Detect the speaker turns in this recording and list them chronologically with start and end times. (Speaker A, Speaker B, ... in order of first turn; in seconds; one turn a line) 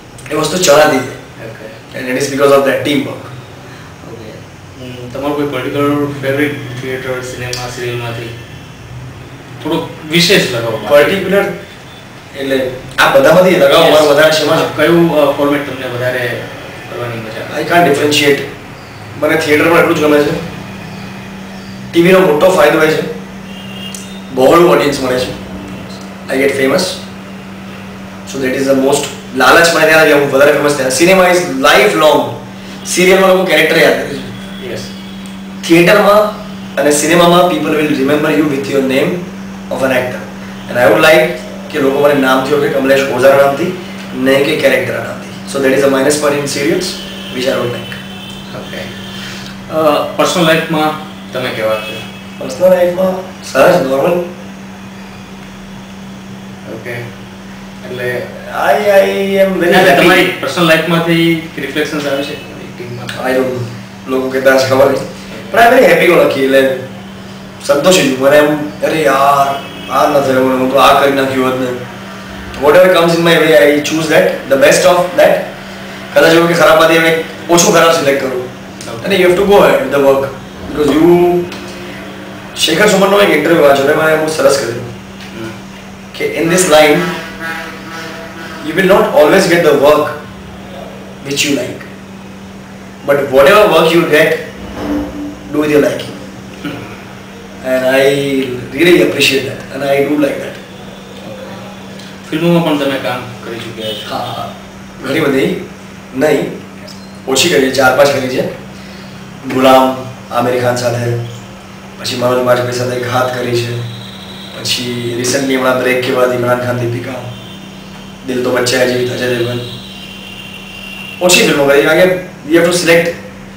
Speaker A: 0.3-1.2
Speaker B: 1.4-1.8
Speaker A: 1.9-3.3
Speaker B: 4.0-8.3
Speaker B: 9.6-11.2
Speaker A: 10.8-11.6
Speaker A: 12.3-14.7
Speaker B: 13.7-18.1
Speaker A: 17.5-18.4
Speaker A: 19.1-20.4
Speaker A: 21.9-23.1
Speaker A: 24.3-25.4
Speaker A: 26.3-27.0
Speaker A: 28.3-34.4
Speaker B: 34.6-34.9
Speaker A: 35.6-48.0
Speaker B: 48.5-52.0
Speaker A: 52.4-54.2
Speaker B: 56.6-57.1
Speaker B: 57.8-58.3
Speaker A: 58.3-60.3
Speaker B: 59.7-63.2
Speaker A: 63.1-66.8
Speaker B: 65.3-65.6
Speaker A: 67.6-71.8
Speaker A: 72.5-75.5
Speaker A: 76.1-78.4
Speaker B: 78.8-79.1
Speaker A: 79.0-81.5
Speaker A: 82.5-84.9
Speaker B: 85.3-85.6
Speaker A: 86.1-87.2
Speaker A: 88.6-90.2
Speaker A: 91.2-91.9
Speaker A: 93.0-94.4
Speaker A: 95.5-96.1
Speaker A: 97.6-100.6
Speaker B: 101.2-101.6
Speaker B: 102.2-104.3
Speaker A: 104.0-105.6
Speaker A: 106.1-106.5
Speaker A: 107.2-108.5
Speaker A: 109.4-111.2
Speaker A: 112.0-113.8
Speaker A: 114.5-117.3
Speaker A: 118.2-119.7
Speaker A: 121.2-123.1